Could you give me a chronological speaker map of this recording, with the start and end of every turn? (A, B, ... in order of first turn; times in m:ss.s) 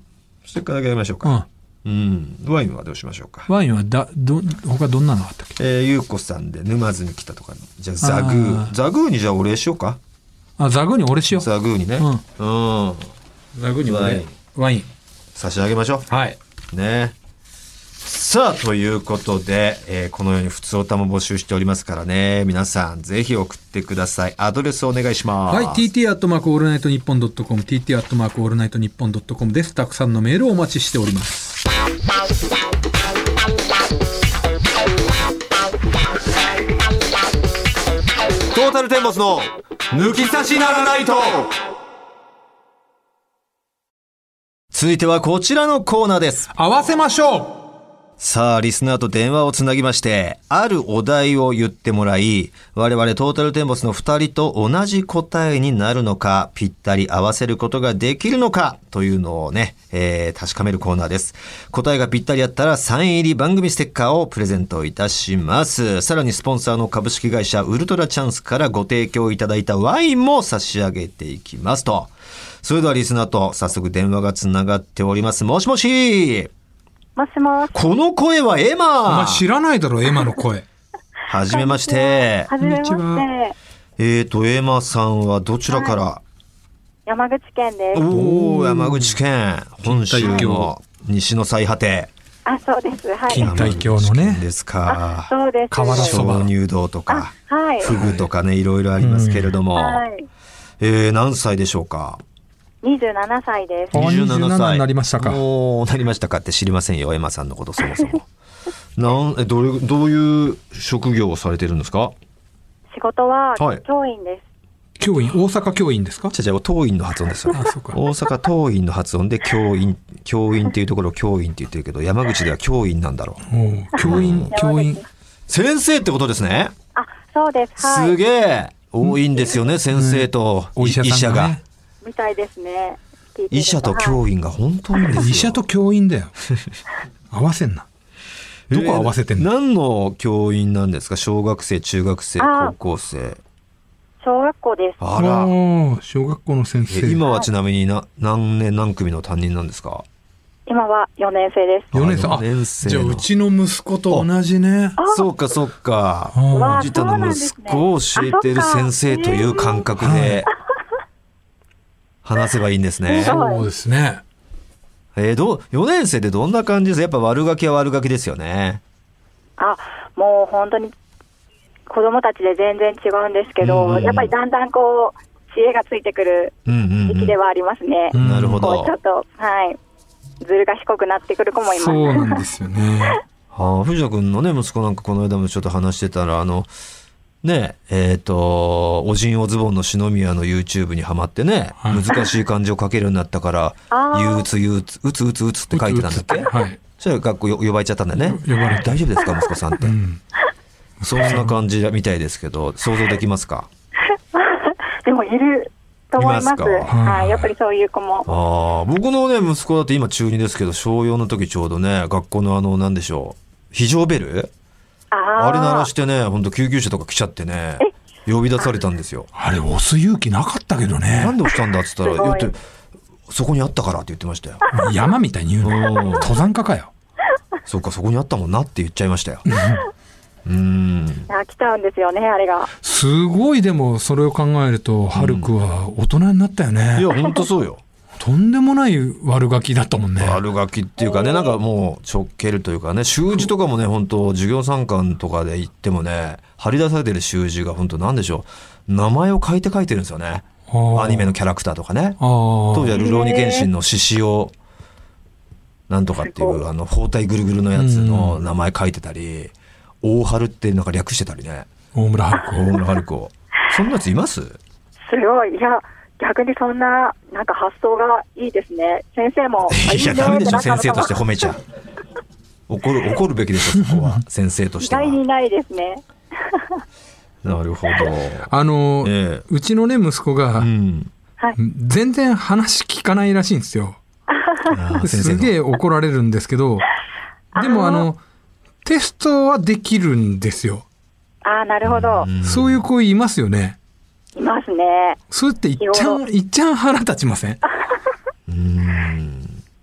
0:00.4-0:03.5 A
0:03.5-0:05.6 B
0:05.6-0:10.0 A
0:08.0-0:08.7 B
0:10.6-0:12.2 B
0:11.3-0:13.1 A
0:13.5-0:14.9 B
0:13.8-0:14.3 A
0:15.3-0:16.1 A
0:16.1-0:16.4 B
0:16.7-0:17.1 A
0:18.0-0:25.8 A
0:25.5-0:31.4 B
0:38.5-0:41.6 A
0:44.7-0:46.5 A
0:46.5-0:47.6 B
0:48.2-1:12.1 A
1:12.6-1:16.5 A
1:17.2-1:17.8 C
1:17.7-1:19.4 A
1:19.0-1:20.6 B
1:21.2-1:22.5 A
1:21.5-1:23.5 C
1:22.6-1:23.3 B
1:24.0-1:26.2 A
1:25.7-1:26.0 C
1:27.0-1:28.1 C
1:27.9-1:32.1 A
1:28.1-1:29.2 B
1:29.8-1:30.7 B
1:32.4-1:33.6 C
1:33.3-1:34.4 B
1:33.4-1:35.3 A
1:34.9-1:36.2 C
1:35.7-1:36.5 B
1:35.8-1:40.0 A
1:37.1-1:38.0 C
1:37.9-1:38.2 B
1:39.0-1:39.5 B
1:39.7-1:40.3 C
1:40.8-1:42.2 A
1:42.8-1:44.0 C
1:43.9-1:45.4 B
1:43.9-1:48.2 A
1:49.0-1:52.1 A
1:52.9-1:54.4 C
1:53.6-1:53.8 A
1:55.0-1:56.3 B
1:56.3-2:03.4 A
1:57.5-1:58.0 B
2:03.5-2:05.0 B
2:04.0-2:04.5 A
2:04.0-2:05.0 C
2:05.5-2:06.7 A
2:06.9-2:08.2 C
2:07.8-2:11.6 A
2:09.9-2:11.6 B
2:12.0-2:14.2 C
2:13.5-2:15.6 A
2:15.1-2:16.3 B
2:17.3-2:17.8 B
2:18.7-2:23.4 A
2:18.7-2:19.5 B
2:22.4-2:22.7 C
2:24.2-2:25.0 C
2:25.0-2:25.5 A
2:25.1-2:27.2 B
2:26.9-2:30.0 A
2:30.7-2:31.9 C
2:31.9-2:33.3 A
2:31.9-2:35.0 B
2:35.0-2:35.3 C
2:35.1-2:40.5 A
2:36.3-2:37.0 B
2:36.5-2:39.8 C
2:40.0-2:40.4 B
2:42.2-2:43.4 A
2:43.1-2:43.6 C
2:43.2-2:44.2 B
2:45.1-2:48.8 A
2:49.6-2:50.9 C
2:51.9-2:59.8 C
2:53.6-2:54.3 A
2:56.6-2:57.4 A
2:58.1-2:58.7 B
2:58.2-2:58.9 A
3:00.4-3:02.4 C
3:01.6-3:03.2 B
3:03.5-3:06.7 A
3:07.4-3:20.0 A
3:11.8-3:12.1 B
3:13.9-3:14.5 C
3:15.7-3:16.8 B
3:18.2-3:19.1 B
3:19.8-3:20.2 B
3:21.0-3:23.7 A
3:21.0-3:21.6 B
3:24.3-3:28.3 C
3:26.2-3:26.9 A
3:26.9-3:27.5 B
3:28.2-3:34.5 A
3:35.1-3:35.9 C
3:35.4-3:39.3 A
3:39.3-3:41.4 B
3:41.1-3:42.6 A
3:42.0-3:42.5 C
3:43.3-3:44.6 A
3:44.7-3:46.9 B
3:45.6-3:46.3 A
3:47.6-3:49.5 A
3:49.4-3:49.8 B
3:50.4-3:51.3 A
3:51.3-3:52.7 C
3:52.8-3:57.1 B
3:55.1-3:55.5 A
3:56.9-3:57.8 A
3:58.2-4:00.4 B
4:00.2-4:14.5 A
4:01.0-4:01.5 C
4:10.7-4:11.3 B
4:12.2-4:13.0 B
4:13.0-4:13.7 C
4:15.9-4:21.7 A
4:16.2-4:16.6 C
4:17.7-4:18.4 B
4:21.9-4:22.6 B
4:22.4-4:24.6 A
4:25.1-4:31.4 C
4:29.7-4:31.6 A
4:32.7-4:35.2 A
4:33.7-4:34.2 B
4:34.8-4:36.8 C
4:37.4-4:38.5 A
4:38.5-4:40.7 B
4:39.0-4:39.4 A
4:40.6-4:41.1 A
4:41.6-4:44.0 B
4:44.3-4:44.8 C
4:44.7-4:45.6 A
4:45.0-4:46.9 B
4:47.5-4:48.1 C
4:47.5-4:48.2 B
4:48.8-4:50.8 B
4:51.4-4:52.3 C
4:51.8-4:52.8 A
4:52.4-4:53.8 B
4:54.4-4:55.2 C
4:55.3-4:57.6 B
4:55.8-4:56.2 C
4:58.5-4:59.6 A